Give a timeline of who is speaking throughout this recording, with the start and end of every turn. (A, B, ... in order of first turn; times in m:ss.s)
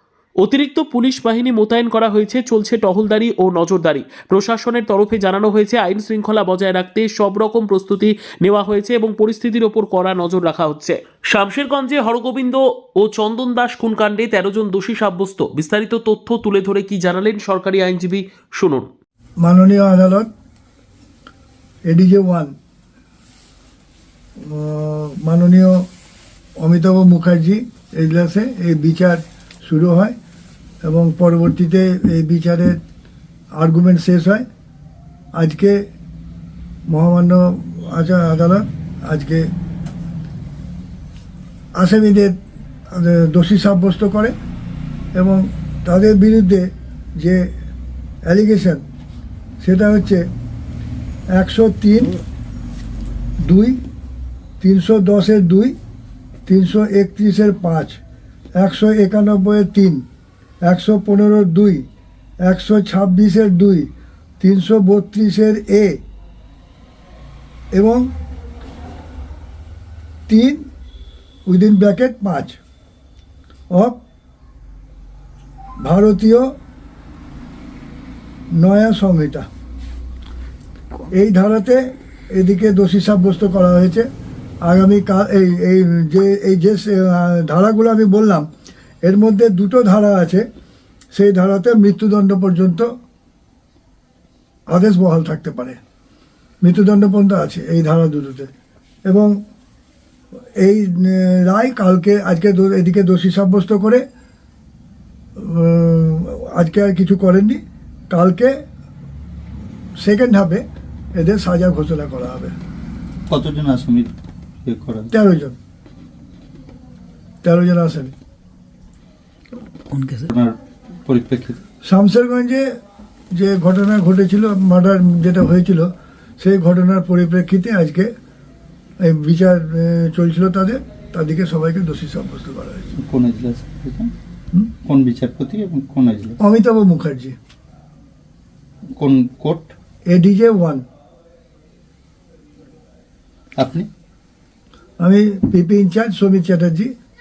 0:00.4-0:18.9 A
0:19.4-0:20.3 B
0:21.9-0:22.5 B
0:24.4-0:25.9 B
0:26.6-0:30.1 B
0:30.8-0:32.8 B
0:33.6-0:34.4 B
0:35.4-0:35.8 B
0:36.9-0:39.5 B
0:41.8-0:42.3 B
0:42.9-0:44.3 B
0:45.1-0:47.4 B
0:48.2-0:48.8 B
0:49.6-0:50.2 B
0:51.3-0:52.2 B
0:53.4-0:53.8 B
0:54.6-0:55.8 B
0:56.5-0:58.0 B
0:58.6-1:00.0 B
1:00.6-1:01.9 B
1:02.4-1:03.9 B
1:04.4-1:06.0 B
1:07.7-1:08.1 B
1:10.3-1:10.6 B
1:11.4-1:12.6 B
1:13.7-1:14.0 B
1:15.8-1:16.5 B
1:18.6-1:19.5 B
1:21.1-1:24.1 B
1:24.6-1:28.5 B
1:29.0-1:30.4 B
1:31.2-1:32.9 B
1:34.7-1:35.8 B
1:36.6-1:38.5 B
1:39.1-1:39.3 B
1:40.6-1:44.0 B
1:45.4-1:47.6 B
1:48.1-1:48.5 B
1:50.0-1:50.6 B
1:51.2-1:52.5 B
1:53.3-1:54.1 C
1:54.6-1:55.1 C
1:55.1-1:55.6 B
1:57.4-1:58.1 B
2:00.3-2:00.5 C
2:01.1-2:01.6 C
2:01.8-2:02.7 B
2:03.3-2:08.1 B
2:09.0-2:12.9 B
2:13.0-2:14.1 C
2:14.8-2:16.4 C
2:16.4-2:17.3 B
2:19.0-2:19.7 C
2:20.1-2:20.8 B
2:23.6-2:23.9 C
2:25.0-2:26.9 B